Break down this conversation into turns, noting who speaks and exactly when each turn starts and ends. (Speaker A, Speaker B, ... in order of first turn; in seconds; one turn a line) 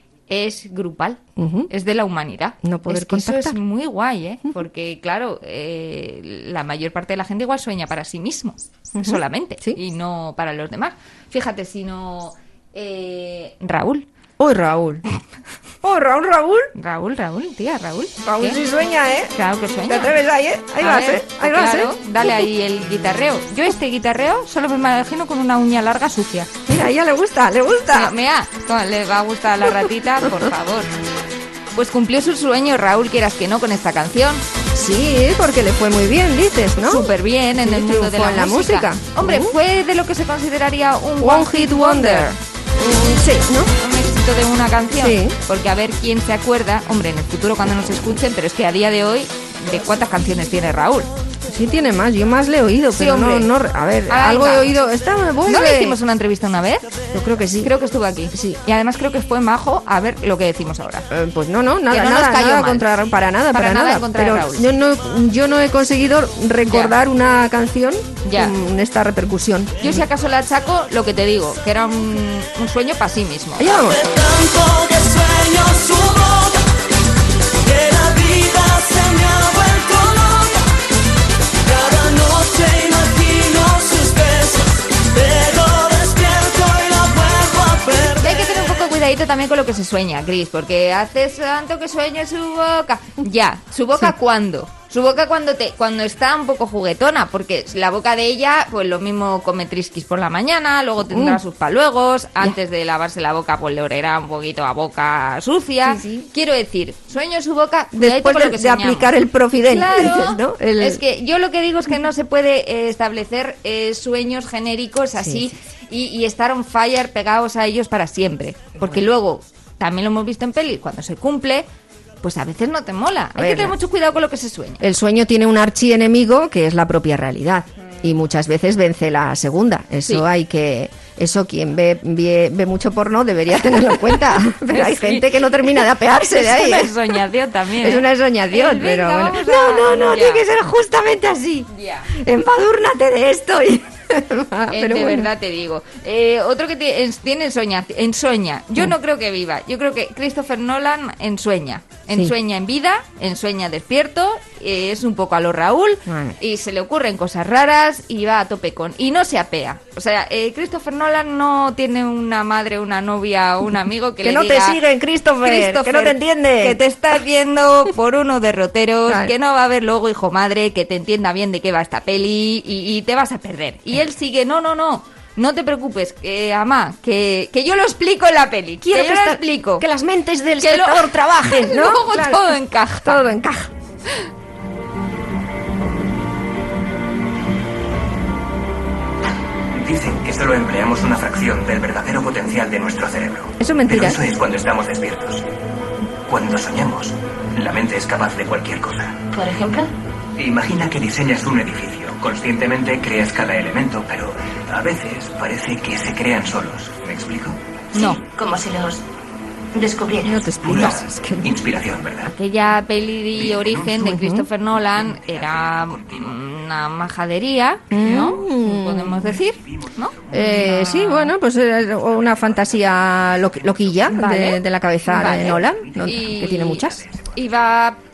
Speaker A: 0.3-14.1
Speaker B: 1.4-1.7
Speaker B: 2.6-3.6
Speaker B: 8.9-9.8
Speaker B: 14.4-15.0
Speaker B: 15.8-16.7
Speaker A: 16.8-18.6
Speaker B: 18.2-19.3
Speaker A: 19.4-20.1
Speaker B: 19.9-22.4
Speaker A: 20.8-26.5
Speaker B: 26.7-28.1
Speaker A: 27.9-30.9
Speaker B: 29.8-30.5
Speaker A: 31.8-34.4
Speaker B: 34.7-37.1
Speaker A: 36.9-42.4
Speaker B: 37.6-39.5
Speaker B: 41.2-43.7
Speaker A: 43.8-51.1
Speaker B: 45.0-45.4
Speaker B: 51.5-56.0
Speaker A: 53.0-53.5
Speaker A: 54.1-54.8
Speaker A: 55.5-56.9
Speaker B: 57.1-57.7
Speaker A: 57.6-61.1
Speaker B: 58.3-58.6
Speaker B: 61.1-70.0
Speaker A: 61.9-62.9
Speaker A: 63.5-64.7
Speaker A: 66.7-67.0
Speaker A: 68.2-68.5
Speaker A: 69.8-73.8
Speaker B: 73.6-74.0
Speaker C: 73.7-76.6
Speaker C: 77.6-80.6
Speaker C: 81.6-88.6
Speaker A: 88.2-109.1
Speaker B: 101.1-101.4
Speaker B: 105.8-106.3
Speaker B: 107.9-111.0
Speaker A: 109.7-121.7
Speaker B: 115.2-115.5
Speaker A: 122.2-124.8
Speaker B: 123.3-123.8
Speaker B: 124.8-136.9
Speaker A: 134.7-140.4
Speaker B: 137.8-145.3
Speaker A: 141.7-142.1
Speaker A: 144.7-164.8
Speaker B: 156.1-156.4
Speaker B: 164.2-166.8
Speaker A: 165.4-179.8
Speaker B: 169.1-169.3
Speaker B: 178.8-183.7
Speaker A: 180.6-183.2
Speaker D: 189.7-195.4
Speaker B: 193.6-194.2
Speaker D: 196.3-199.2
Speaker E: 199.3-199.9
Speaker D: 200.4-207.6
Speaker E: 207.9-209.0
Speaker E: 209.8-210.4
Speaker B: 210.2-211.5
Speaker D: 210.6-212.3
Speaker A: 212.3-221.3
Speaker D: 213.4-213.9
Speaker B: 214.0-214.5
Speaker D: 214.9-216.3
Speaker B: 217.9-219.4
Speaker B: 220.3-227.1
Speaker A: 224.1-228.0